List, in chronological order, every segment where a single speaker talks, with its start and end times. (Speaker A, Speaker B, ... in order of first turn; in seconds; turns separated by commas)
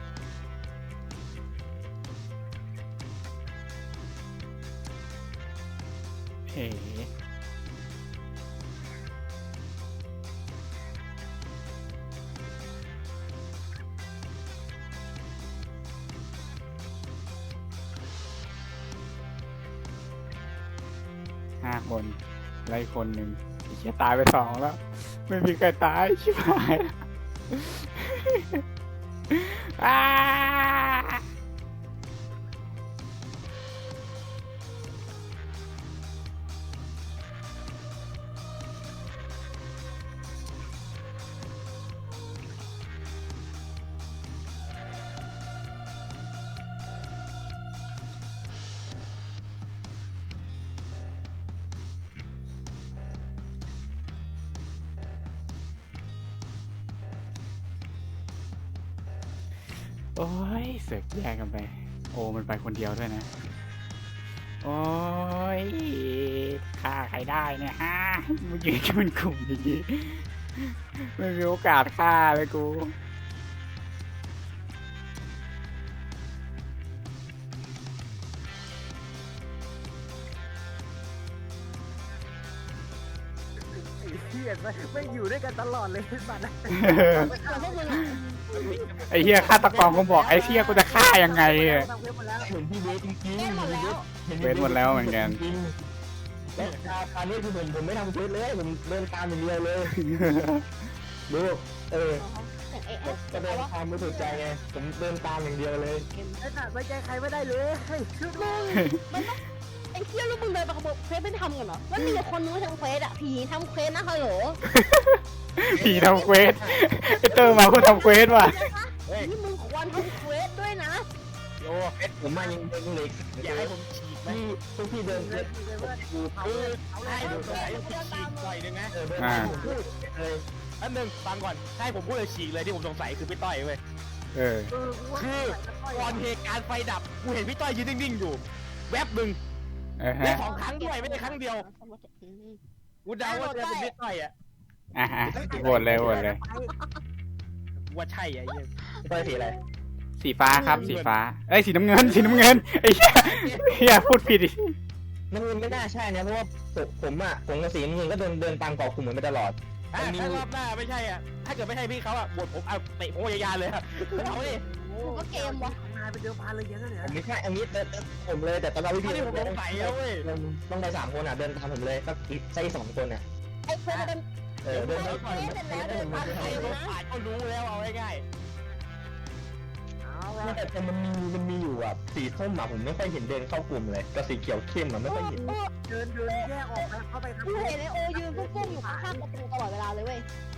Speaker A: 6.5-7.1, Speaker A: 21.6-27.0, Speaker A: 27.5-28.6, Speaker A: 29.3-31.2, Speaker A: 60.1-63.4, Speaker A: 64.6-72.9, Speaker B: 83.8-92.5, Speaker A: 86.7-87.3, Speaker C: 87.1-88.5, Speaker D: 88.6-89.6, Speaker A: 89.1-91.9, Speaker E: 92.4-95.7, Speaker C: 93.3-94.0, Speaker A: 94.4-95.4, Speaker D: 96.5-96.8, Speaker E: 96.5-100.0, Speaker A: 100.0-100.6, Speaker E: 101.3-102.2, Speaker C: 102.2-104.5, Speaker E: 103.0-106.1, Speaker C: 106.1-106.4, Speaker B: 106.4-108.8, Speaker C: 108.4-109.4, Speaker A: 108.7-109.0, Speaker C: 109.9-114.6, Speaker A: 114.6-118.5, Speaker C: 115.8-116.5, Speaker C: 117.2-121.0, Speaker D: 121.6-122.0, Speaker E: 122.0-123.7, Speaker D: 123.4-124.4, Speaker E: 124.2-126.5, Speaker B: 125.0-127.8, Speaker D: 126.4-128.9, Speaker C: 127.2-128.6, Speaker E: 127.2-127.5, Speaker E: 128.9-130.4, Speaker A: 129.2-129.5, Speaker B: 129.2-129.7, Speaker D: 130.8-133.8, Speaker A: 134.3-134.7, Speaker B: 134.7-136.2, Speaker D: 135.1-139.4, Speaker A: 140.0-140.4, Speaker D: 140.2-141.6, Speaker C: 140.3-142.6, Speaker D: 143.0-144.3, Speaker C: 143.2-143.8, Speaker B: 143.4-143.9, Speaker A: 144.9-146.4, Speaker E: 145.2-146.2, Speaker B: 145.3-146.7, Speaker C: 146.7-147.0, Speaker D: 147.9-148.7, Speaker E: 149.0-149.6, Speaker A: 150.2-154.7, Speaker C: 150.5-151.0, Speaker D: 150.7-151.2, Speaker D: 152.0-152.5, Speaker D: 153.1-153.9, Speaker E: 155.3-160.4, Speaker D: 159.9-164.6, Speaker B: 164.1-167.2, Speaker C: 165.0-165.8, Speaker E: 167.0-173.2, Speaker D: 169.0-170.2, Speaker C: 173.7-177.0, Speaker E: 174.6-176.8, Speaker D: 174.7-175.5, Speaker D: 176.1-178.2, Speaker B: 180.0-180.7, Speaker E: 180.4-185.6, Speaker C: 185.1-185.7, Speaker B: 185.8-189.2, Speaker C: 186.3-186.9, Speaker C: 187.4-190.2